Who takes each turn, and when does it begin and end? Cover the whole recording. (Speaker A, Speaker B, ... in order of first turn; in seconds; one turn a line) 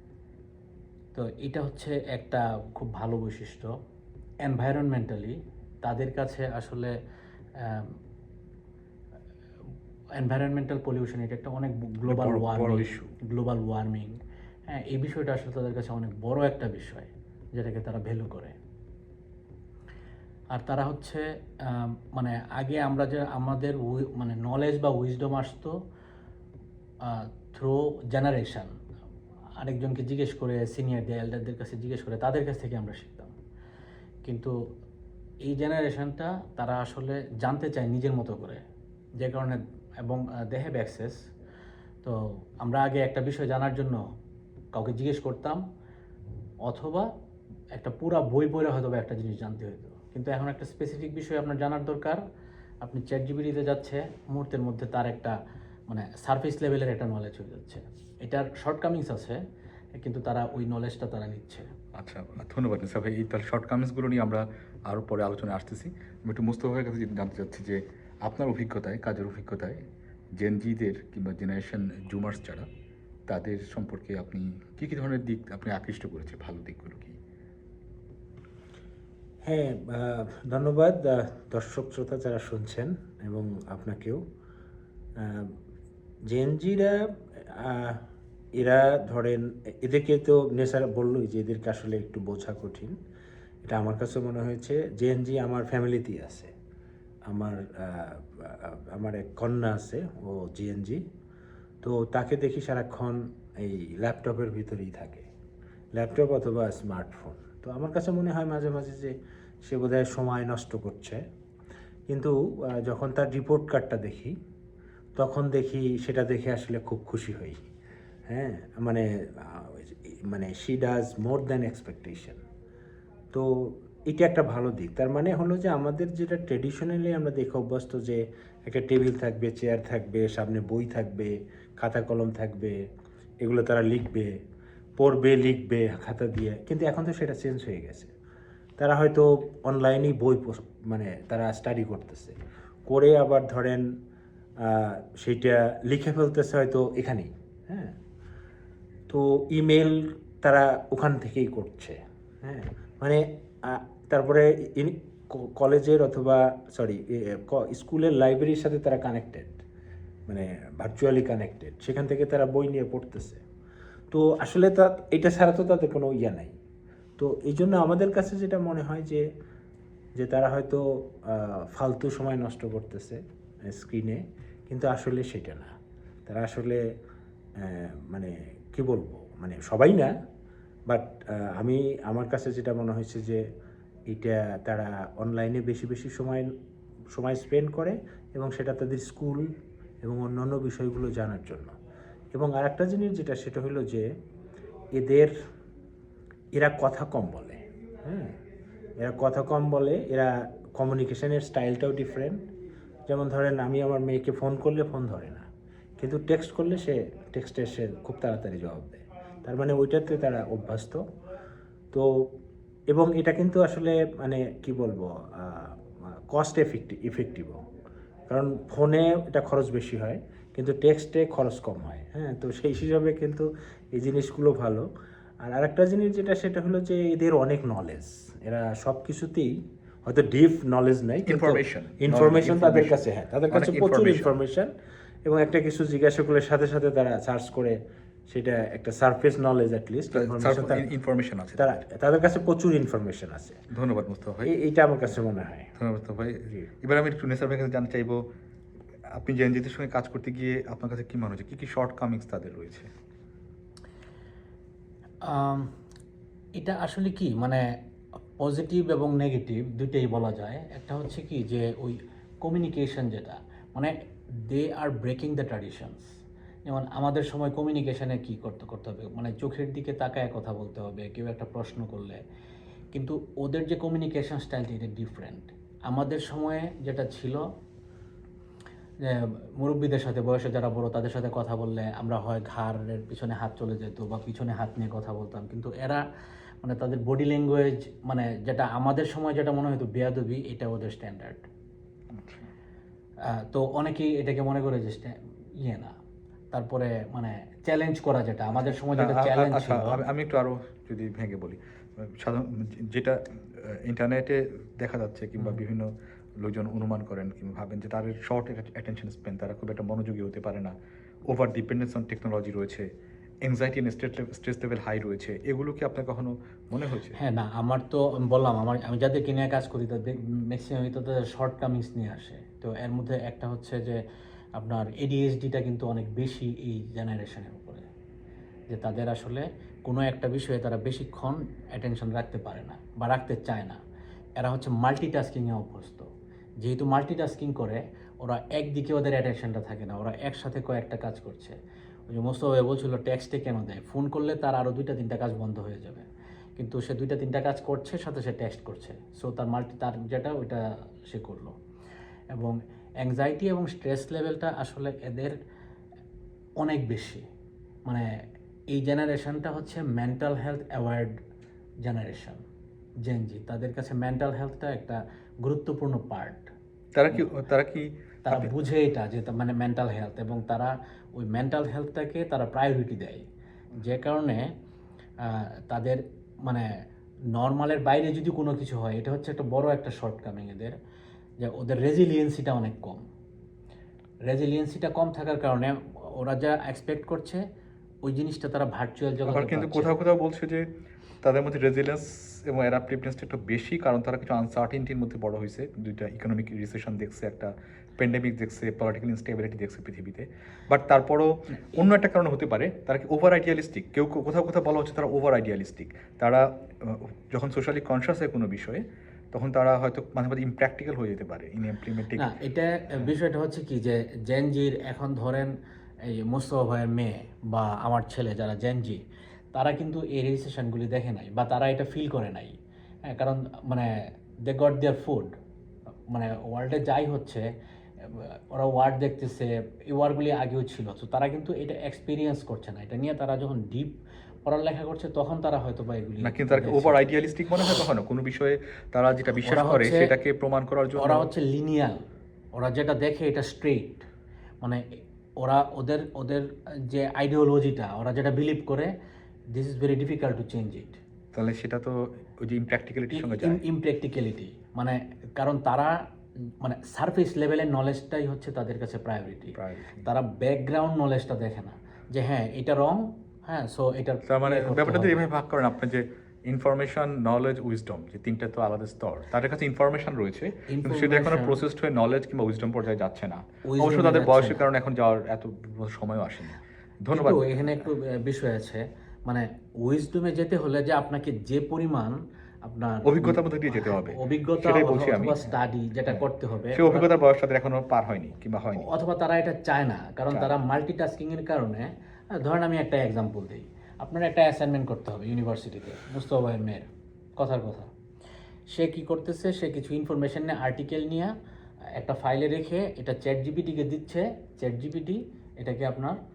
Speaker A: 1.1-3.7
Speaker A: 4.4-6.9
Speaker A: 7.6-8.0
Speaker A: 10.2-18.6
Speaker B: 12.1-13.1
Speaker A: 20.5-25.7
Speaker A: 27.0-28.7
Speaker A: 29.6-33.3
Speaker A: 34.2-34.5
Speaker A: 35.5-38.6
Speaker A: 39.2-41.2
Speaker A: 42.0-44.0
Speaker A: 44.7-45.6
Speaker A: 46.6-47.1
Speaker A: 47.7-52.2
Speaker A: 52.8-55.4
Speaker A: 55.9-59.4
Speaker A: 59.9-61.7
Speaker B: 62.0-69.8
Speaker B: 70.4-72.7
Speaker B: 73.3-77.2
Speaker C: 79.4-84.2
Speaker C: 85.2-85.5
Speaker C: 86.3-88.0
Speaker C: 88.5-92.9
Speaker C: 93.6-96.5
Speaker C: 97.3-101.0
Speaker C: 101.8-105.2
Speaker C: 105.9-111.2
Speaker C: 112.1-114.3
Speaker C: 115.2-117.6
Speaker C: 118.3-122.4
Speaker C: 123.3-132.8
Speaker C: 133.4-134.3
Speaker C: 135.0-138.1
Speaker C: 138.8-143.9
Speaker C: 144.6-147.9
Speaker C: 149.1-159.6
Speaker C: 160.3-163.4
Speaker C: 164.1-166.5
Speaker C: 167.2-169.2
Speaker C: 170.2-175.7
Speaker C: 176.2-176.8
Speaker C: 177.6-180.1
Speaker C: 180.9-183.4
Speaker C: 184.1-186.5
Speaker C: 187.1-189.5
Speaker C: 190.0-191.7
Speaker C: 192.3-194.1
Speaker C: 194.9-195.3
Speaker C: 196.5-198.4
Speaker C: 199.0-202.4
Speaker C: 203.1-205.5
Speaker C: 206.0-211.0
Speaker C: 211.9-212.3
Speaker C: 212.9-217.6
Speaker C: 218.3-224.9
Speaker C: 225.4-234.7
Speaker B: 231.3-234.3
Speaker C: 235.2-240.9
Speaker B: 240.1-241.8
Speaker C: 241.6-243.6
Speaker B: 243.7-244.5
Speaker C: 244.4-245.7
Speaker B: 245.8-248.2
Speaker B: 249.1-252.9
Speaker A: 255.2-255.7
Speaker A: 256.6-257.6
Speaker A: 258.4-263.9
Speaker A: 264.5-266.1
Speaker A: 266.7-272.2
Speaker A: 272.9-277.4
Speaker A: 279.0-286.0
Speaker A: 286.6-291.4
Speaker B: 292.1-292.5
Speaker A: 293.3-295.9
Speaker A: 296.5-300.0
Speaker B: 298.9-310.7
Speaker B: 311.3-312.9
Speaker B: 313.4-317.2
Speaker A: 317.2-324.0
Speaker A: 324.6-327.9
Speaker A: 328.7-333.8
Speaker A: 334.4-336.1
Speaker A: 336.6-341.6
Speaker A: 342.1-346.1
Speaker A: 346.6-351.6
Speaker A: 352.3-355.3
Speaker A: 356.6-357.2
Speaker A: 358.7-361.1
Speaker A: 361.9-362.4
Speaker A: 363.1-366.5
Speaker B: 366.9-368.5
Speaker A: 368.3-374.4
Speaker A: 375.2-376.7
Speaker A: 377.3-380.7
Speaker A: 381.4-383.1
Speaker A: 384.3-387.4
Speaker A: 388.0-389.9
Speaker B: 389.2-390.7
Speaker B: 391.2-412.3
Speaker A: 412.1-415.5
Speaker A: 416.1-422.6
Speaker A: 423.1-423.9
Speaker A: 424.4-425.3
Speaker A: 426.1-427.4
Speaker A: 428.0-437.0
Speaker B: 436.2-441.3
Speaker A: 439.4-440.1
Speaker A: 441.0-444.1
Speaker A: 444.6-448.9
Speaker A: 449.5-451.0
Speaker B: 451.3-453.6
Speaker A: 453.1-456.0
Speaker A: 456.6-465.3
Speaker B: 459.5-460.1
Speaker B: 464.2-477.6
Speaker A: 470.7-471.6
Speaker A: 473.7-474.6
Speaker A: 477.1-487.1
Speaker B: 483.0-485.4
Speaker B: 486.1-488.9
Speaker A: 488.8-496.9
Speaker B: 490.3-490.6
Speaker A: 497.4-497.9
Speaker A: 498.7-501.3
Speaker A: 502.0-506.1